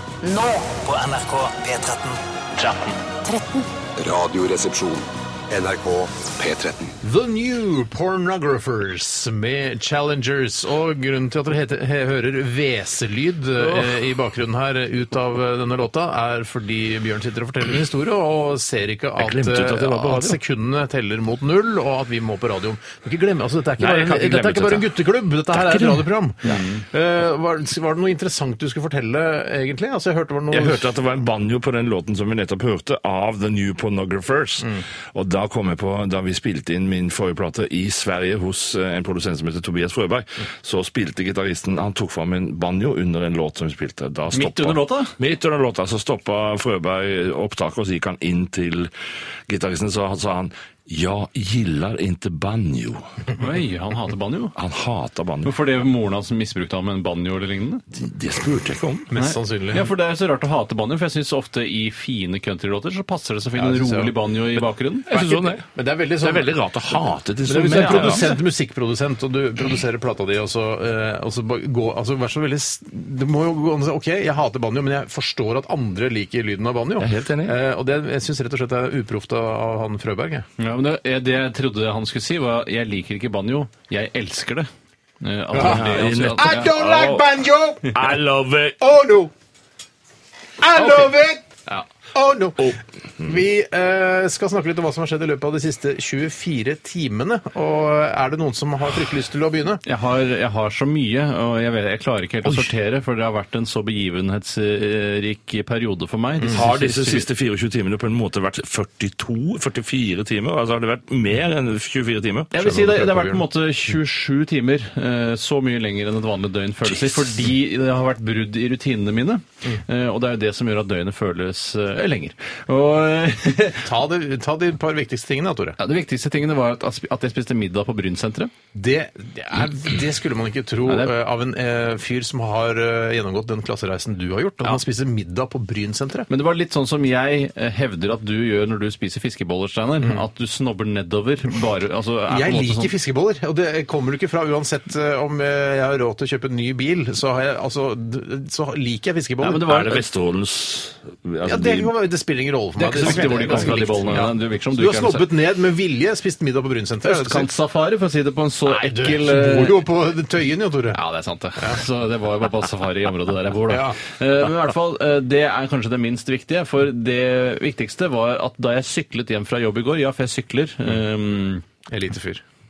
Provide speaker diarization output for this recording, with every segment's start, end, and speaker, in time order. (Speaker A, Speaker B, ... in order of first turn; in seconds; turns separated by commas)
Speaker A: 0.2-3.7, Speaker B: 4.0-7.0, Speaker C: 7.0-30.9, Speaker D: 19.2-20.4, Speaker D: 23.8-24.9, Speaker D: 25.5-26.6, Speaker E: 26.5-26.8, Speaker D: 30.5-48.9, Speaker E: 44.3-45.1, Speaker D: 49.5-53.0, Speaker E: 53.4-54.5, Speaker D: 54.5-55.5, Speaker E: 55.4-57.8, Speaker D: 57.9-59.1, Speaker C: 59.1-59.9, Speaker E: 59.1-65.1, Speaker C: 63.5-64.2, Speaker D: 65.1-65.6, Speaker C: 65.1-66.6, Speaker D: 66.2-68.4, Speaker C: 67.5-80.5, Speaker E: 67.6-68.3, Speaker D: 77.0-77.5, Speaker E: 80.6-84.7, Speaker E: 85.2-86.7, Speaker D: 85.5-87.3, Speaker C: 85.5-88.0, Speaker D: 87.9-88.8, Speaker C: 88.8-89.3, Speaker C: 90.6-91.5, Speaker E: 90.8-91.1, Speaker C: 92.1-99.8, Speaker D: 92.6-93.4, Speaker E: 99.8-107.3, Speaker D: 106.5-112.7, Speaker E: 112.5-123.9, Speaker C: 112.6-113.5, Speaker D: 116.8-117.4, Speaker C: 123.8-125.8, Speaker E: 125.8-128.5, Speaker C: 128.7-136.3, Speaker E: 130.8-131.1, Speaker E: 136.3-142.9, Speaker C: 142.3-149.7, Speaker E: 149.4-150.0, Speaker D: 149.6-151.9, Speaker C: 151.4-157.5, Speaker E: 152.8-155.3, Speaker D: 153.0-154.1, Speaker E: 157.0-159.8, Speaker C: 158.6-161.0, Speaker E: 160.9-171.6, Speaker C: 163.7-164.0, Speaker C: 171.9-172.4